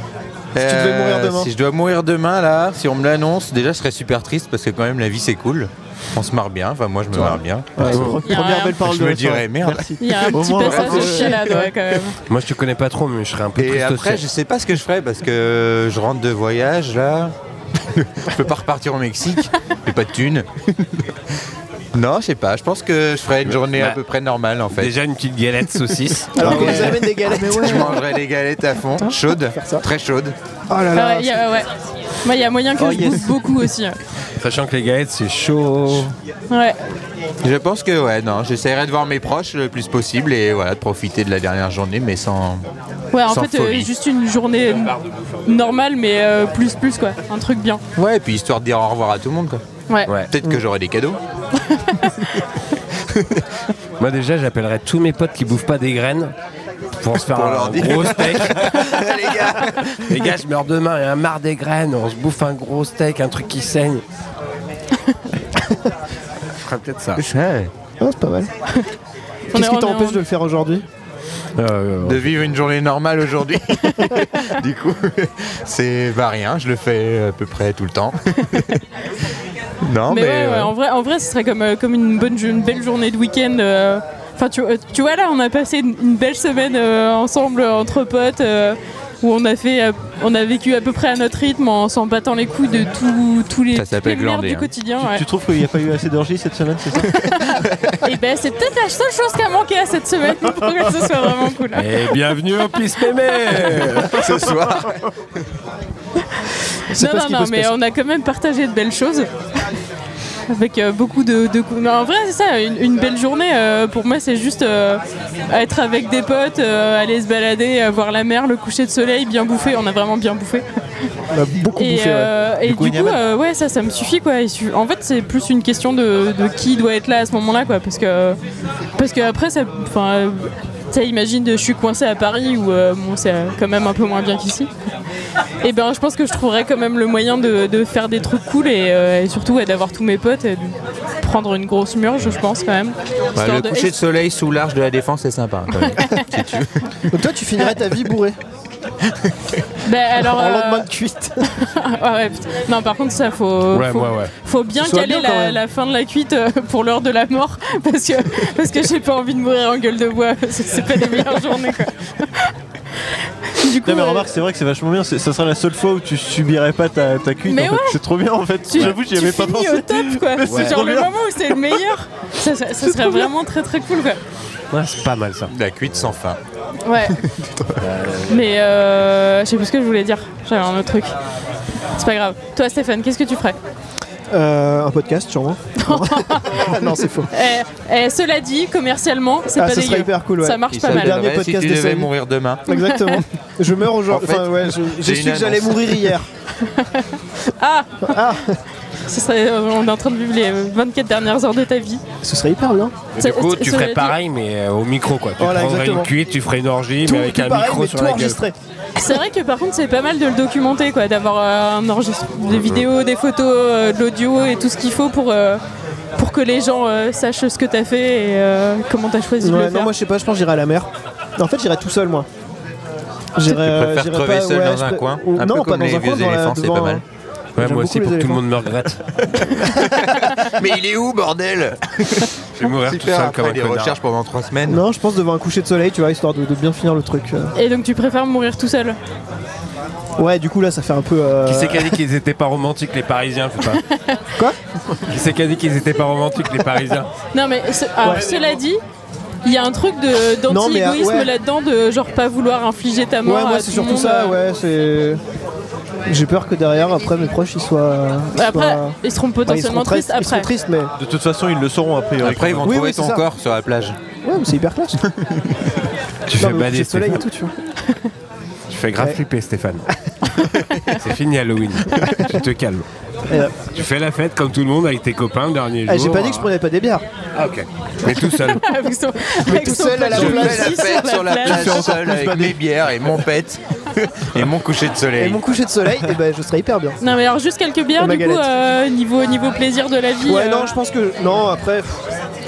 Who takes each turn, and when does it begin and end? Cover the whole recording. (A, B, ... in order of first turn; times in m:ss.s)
0:00.5-0:08.1 A
0:00.6-0:01.5 B
0:07.1-0:11.7 C
0:07.9-0:08.2 D
0:08.0-0:08.8 E
0:08.8-0:11.1 A
0:10.0-0:12.2 E
0:12.3-0:14.2 D
0:13.6-0:17.3 A
0:18.0-0:21.0 A
0:21.9-0:24.9 A
0:23.4-0:24.0 D
0:24.7-0:27.1 D
0:26.4-0:28.0 B
0:26.4-0:27.0 A
0:27.2-0:28.0 C
0:27.5-0:30.3 A
0:29.0-0:29.8 B
0:30.7-0:31.4 B
0:30.9-0:31.7 E
0:32.2-0:34.0 E
0:32.8-0:33.3 C
0:34.4-0:36.1 D
0:36.5-0:36.8 E
0:37.4-0:42.6 A
0:43.1-0:44.9 E
0:43.2-0:43.9 A
0:44.7-0:45.4 D
0:45.4-0:47.8 E
0:48.0-0:49.6 A
0:50.3-0:51.2 A
0:51.6-0:52.3 E
0:53.1-0:53.4 A
0:54.0-0:56.3 D
0:57.0-0:58.8 D
0:57.1-1:00.2 A
1:00.1-1:04.0 D
1:06.6-1:07.7 D
1:08.0-1:08.5 B
1:09.5-1:10.2 E
1:09.5-1:10.8 B
1:11.6-1:12.5 D
1:12.0-1:18.8 A
1:19.8-1:20.7 A
1:20.1-1:35.2 E
1:33.7-1:34.7 A
1:35.0-1:37.1 C
1:37.1-1:41.8 E
1:41.7-1:44.6 D
1:44.1-1:45.0 A
1:46.9-1:47.7 B
1:47.0-1:49.3 E
1:50.5-2:00.6 E
2:01.3-2:02.3 B
2:01.8-2:08.4 E
2:02.6-2:03.2 C
2:09.0-2:14.7 E
2:15.6-2:23.9 E
2:23.4-2:26.7 A
2:25.8-2:26.2 E
2:27.1-2:28.4 B
2:29.8-2:30.9 E
2:30.2-2:31.4 B
2:31.6-2:42.5 E
2:33.7-2:34.3 D
2:34.8-2:35.6 B
2:43.6-2:44.4 E
2:43.8-2:51.8 C
2:47.5-2:48.0 E
2:48.6-2:54.2 E
2:50.5-2:50.7 D
2:52.8-2:53.3 C
2:54.7-2:55.5 D
2:55.5-2:56.4 A
2:56.8-2:57.2 E
2:57.2-2:57.8 A
2:57.8-2:58.3 D
2:58.3-3:01.1 E
3:02.0-3:03.6 E
3:04.3-3:07.3 B
3:05.8-3:06.8 E
3:07.3-3:11.2 E
3:09.6-3:12.1 B
3:10.7-3:12.6 A
3:12.6-3:16.2 B
3:12.7-3:13.2 E
3:14.1-3:16.2 A
3:16.6-3:18.2 E
3:18.1-3:18.6 B
3:19.1-3:22.0 E
3:22.2-3:23.0 B
3:23.1-3:28.4 D
3:23.2-3:24.1 E
3:25.4-3:26.1 B
3:27.0-3:28.5 B
3:29.0-3:35.6 E
3:36.2-3:39.9 E
3:39.4-3:42.3 B
3:43.4-3:47.0 B
3:43.4-3:47.0 A
3:47.6-3:49.0 D
3:47.6-3:48.4 B
3:49.3-3:54.8 A
3:52.6-3:54.0 D
3:54.7-3:57.5 B
3:57.5-3:59.0 E
4:00.2-4:02.0 B
4:01.4-4:03.8 D
4:03.9-4:04.2 E
4:05.1-4:07.1 D
4:07.3-4:08.8 E
4:08.0-4:08.3 B
4:09.4-4:14.4 E
4:10.5-4:11.3 B
4:13.2-4:15.2 B
4:16.1-4:20.9 B
4:18.3-4:20.5 E
4:21.0-4:22.8 C
4:22.2-4:24.0 A
4:22.6-4:23.2 B
4:24.2-4:25.0 B
4:26.3-4:27.2 D
4:26.4-4:27.5 B
4:28.7-4:29.8 D
4:30.9-4:32.8 D
4:33.3-4:33.5 B
4:33.7-4:36.5 D
4:35.9-4:37.0 B
4:37.4-4:38.6 D
4:38.5-4:41.9 E
4:39.4-4:40.8 B
4:40.0-4:45.4 A
4:41.4-4:42.6 C
4:45.2-4:47.0 B
4:47.0-4:50.7 E
4:48.0-4:48.4 B
4:50.2-4:52.0 B